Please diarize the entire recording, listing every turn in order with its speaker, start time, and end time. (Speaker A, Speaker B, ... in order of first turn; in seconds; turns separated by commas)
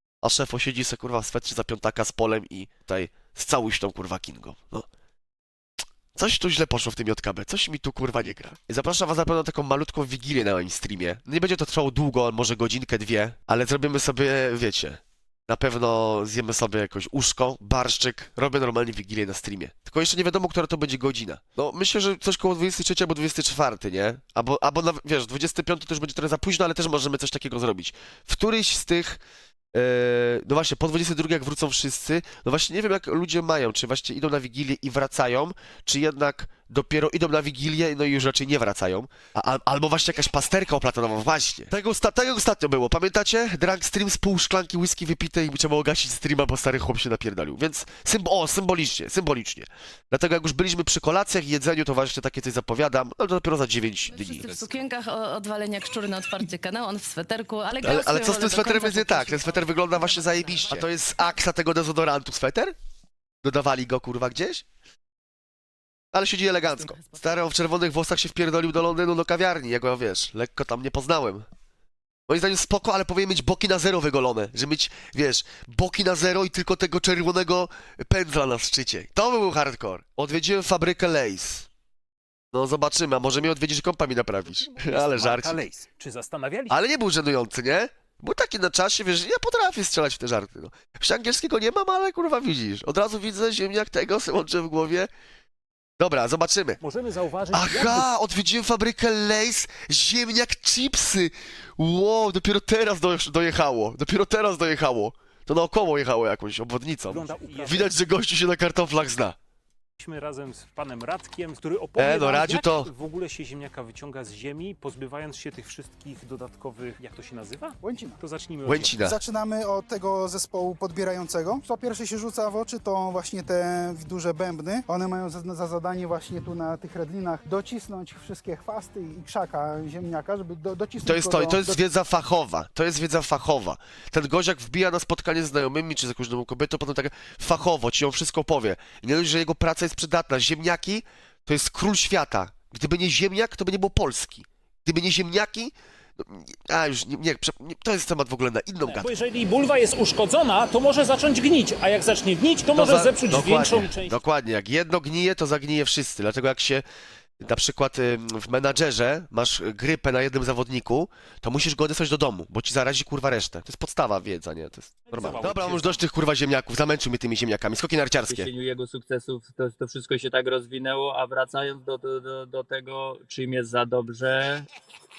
Speaker A: 0.2-4.9, Speaker A: 6.1-29.2, Speaker A: 29.7-54.5, Speaker B: 54.1-60.7, Speaker A: 57.8-62.7, Speaker A: 63.4-64.6, Speaker A: 66.1-71.5, Speaker A: 72.3-81.7, Speaker A: 82.5-85.6, Speaker C: 84.5-86.8, Speaker A: 86.7-95.1, Speaker A: 96.0-96.8, Speaker C: 96.8-98.1, Speaker A: 97.5-109.3, Speaker C: 107.1-108.0, Speaker C: 110.0-119.0, Speaker A: 112.0-112.9, Speaker D: 117.8-118.2, Speaker A: 118.6-119.2, Speaker D: 119.0-131.8, Speaker A: 131.0-149.2, Speaker C: 148.8-154.2, Speaker A: 152.7-156.8, Speaker A: 157.4-168.5, Speaker C: 165.1-166.0, Speaker E: 168.2-174.7